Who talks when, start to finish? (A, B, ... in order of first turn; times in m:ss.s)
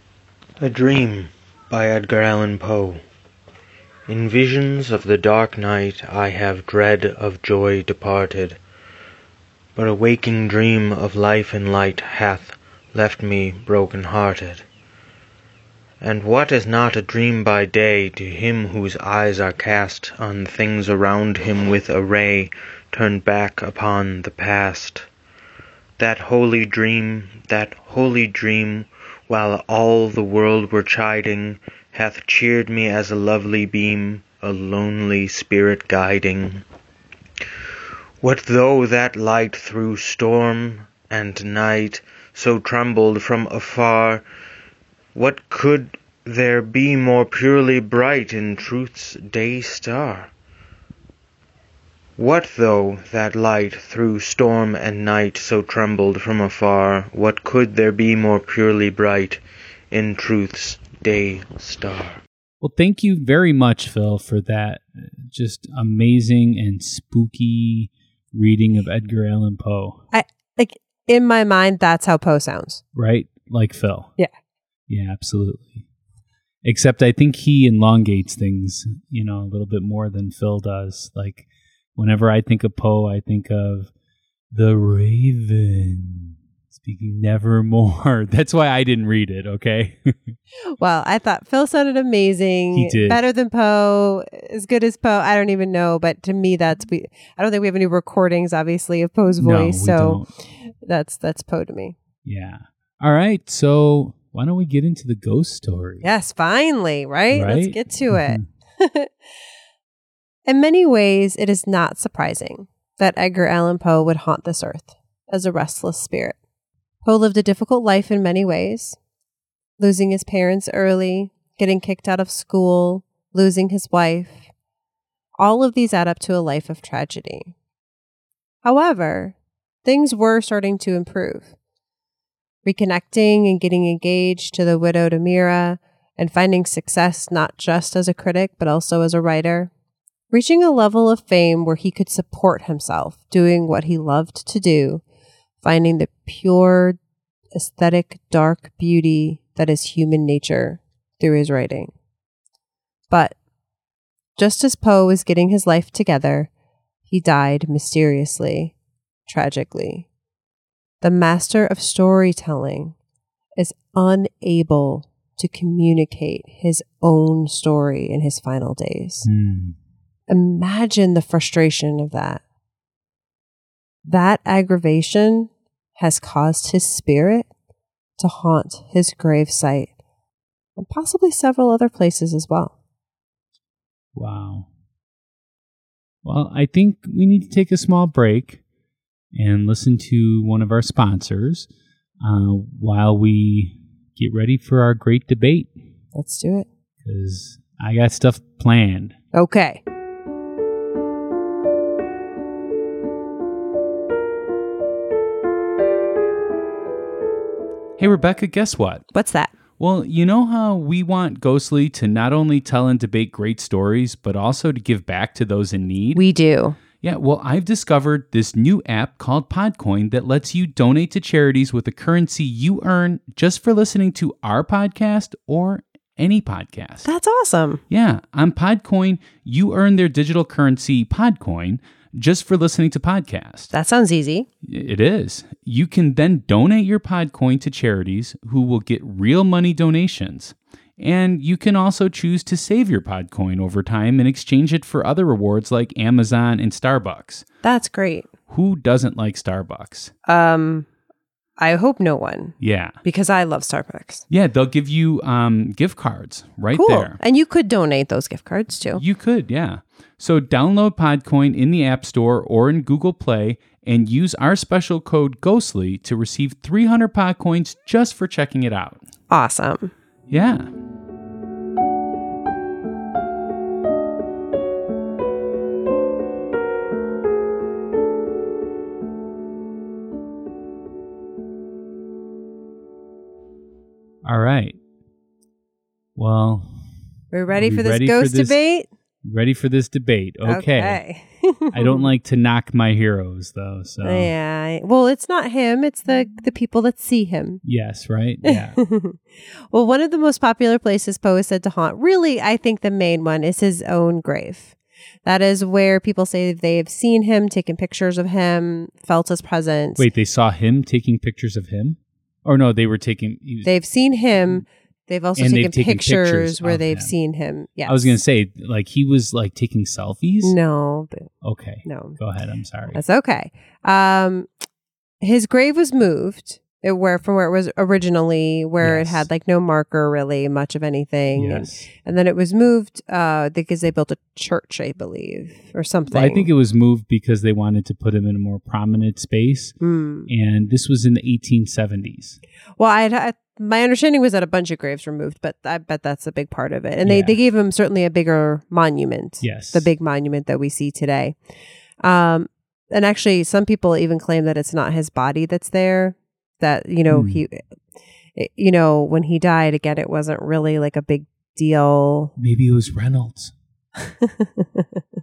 0:00.6-0:03.0 A
0:04.1-0:08.6 A
0:09.8-0:14.6 A
0:16.0-0:25.1 A
0:26.0-0:36.6 A
0:38.2-0:44.2 A
0:45.1-0:50.3 A
0:52.2-0:59.4 A
0:59.9-1:02.2 A
1:02.6-1:10.0 B
1:10.1-1:12.8 C
1:12.9-1:14.1 B
1:14.9-1:15.8 B
1:16.6-1:23.9 B
1:24.5-1:30.4 B
1:30.8-1:42.0 C
1:32.7-1:33.2 B
1:39.4-1:40.3 B
1:42.2-1:46.0 B
1:46.0-1:49.1 C
1:47.3-1:48.4 B
1:50.5-1:56.4 C
1:57.0-1:59.0 C
1:59.8-2:04.4 C
2:05.4-2:07.5 C
2:08.6-2:11.5 C
2:12.6-2:19.7 C
2:20.3-2:25.0 C
2:25.6-2:27.0 C
2:27.5-2:31.9 C
2:33.1-2:33.3 C
2:34.4-2:36.5 C
2:37.1-2:38.7 C
2:39.3-2:40.0 C
2:41.0-2:42.9 C
2:43.6-2:49.3 C
2:49.2-2:49.8 B
2:50.3-2:52.4 C
2:54.0-2:57.5 C
2:58.2-2:59.9 C
3:00.8-3:02.7 C
3:04.1-3:04.7 B
3:06.2-3:08.6 B
3:09.3-3:11.7 B
3:12.2-3:15.7 B
3:16.1-3:16.7 C
3:17.0-3:19.1 B
3:19.3-3:19.8 C
3:28.0-3:29.0 B
3:29.1-3:29.5 C
3:29.8-3:36.2 B
3:36.1-3:36.8 C
3:37.0-3:47.1 B
3:47.0-3:47.8 C
3:47.9-3:53.7 B
3:53.7-3:54.5 C
3:54.6-4:07.4 B
4:07.6-4:08.3 C
4:08.5-4:10.1 B
4:10.2-4:10.9 C
4:11.6-4:14.2 C
4:12.6-4:13.0 B
4:14.3-4:17.2 B
4:16.7-4:19.0 C
4:18.9-4:29.0 B
4:29.3-4:29.9 C
4:30.3-4:30.7 B
4:44.2-4:44.8 B
4:46.2-4:46.8 B
4:47.3-4:48.9 C
4:47.5-4:48.6 B
4:49.2-4:51.0 B
4:50.4-4:52.1 C
4:51.7-4:54.3 B
4:54.0-4:57.6 C
4:57.6-4:58.8 B
4:58.4-5:10.0 C
5:10.0-5:13.7 B
5:13.6-5:18.2 C
5:15.4-5:17.1 B
5:17.8-5:20.6 B
5:20.4-5:21.3 C
5:21.4-5:23.0 B
5:21.8-5:22.2 C
5:22.9-5:24.5 C
5:25.2-5:36.5 C
5:28.8-5:29.3 B
5:31.3-5:31.9 B
5:36.1-5:39.8 B
5:39.8-5:40.3 C
5:40.3-5:42.4 B
5:42.8-5:51.4 C
5:47.0-5:47.4 B
5:49.4-5:49.9 B
5:52.0-5:57.6 C
5:57.1-5:57.4 B
5:58.3-6:02.3 C
6:02.4-6:03.5 B
6:04.0-6:05.0 C